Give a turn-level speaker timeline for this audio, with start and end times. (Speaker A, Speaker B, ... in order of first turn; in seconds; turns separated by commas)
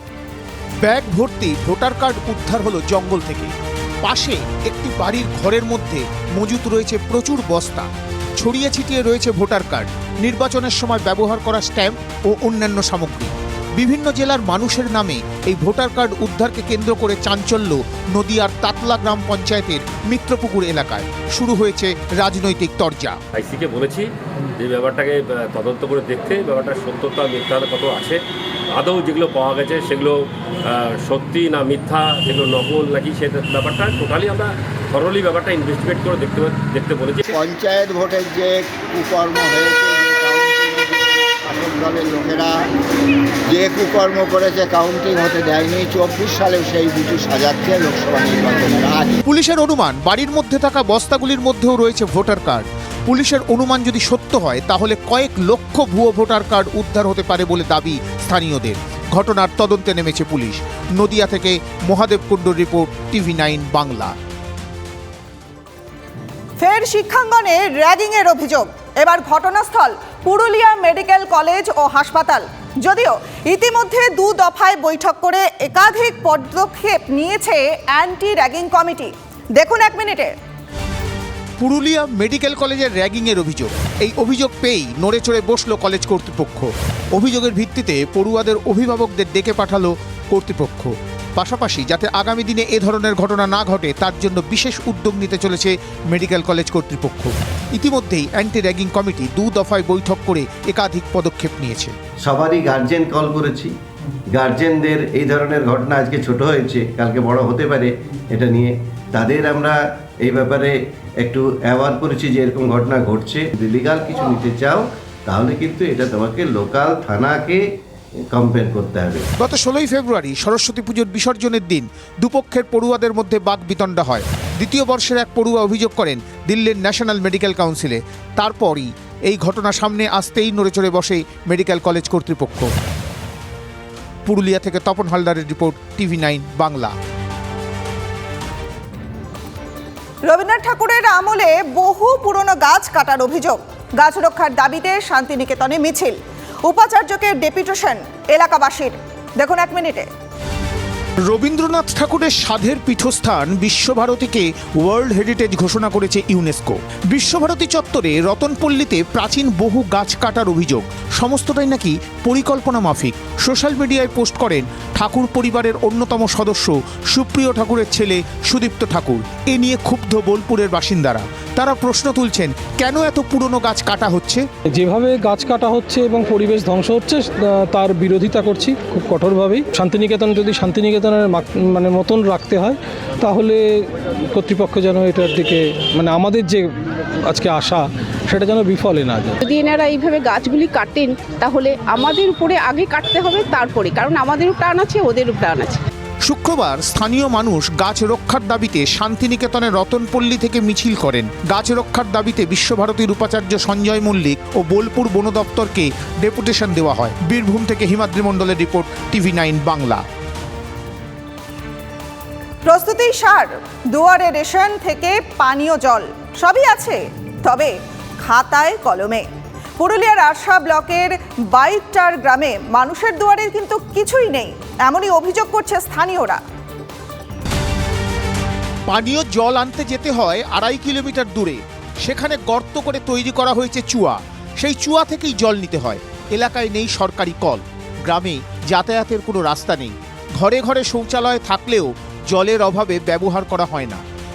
Speaker A: 0.8-3.5, Speaker A: 4.0-23.2, Speaker B: 23.4-28.2, Speaker B: 28.7-37.3, Speaker C: 37.3-42.6, Speaker C: 43.5-49.2, Speaker A: 49.3-64.1, Speaker D: 66.6-80.3, Speaker A: 81.6-101.9, Speaker E: 102.2-103.7, Speaker E: 104.3-117.6, Speaker E: 118.3-119.2, Speaker A: 119.4-132.7, Speaker A: 134.2-136.9, Speaker D: 140.2-150.1, Speaker A: 151.3-174.4, Speaker F: 174.8-186.7, Speaker F: 187.2-189.4, Speaker G: 189.4-195.8, Speaker A: 196.2-210.0, Speaker D: 212.7-217.7, Speaker D: 218.2-219.2, Speaker D: 219.8-226.4, Speaker A: 228.9-244.0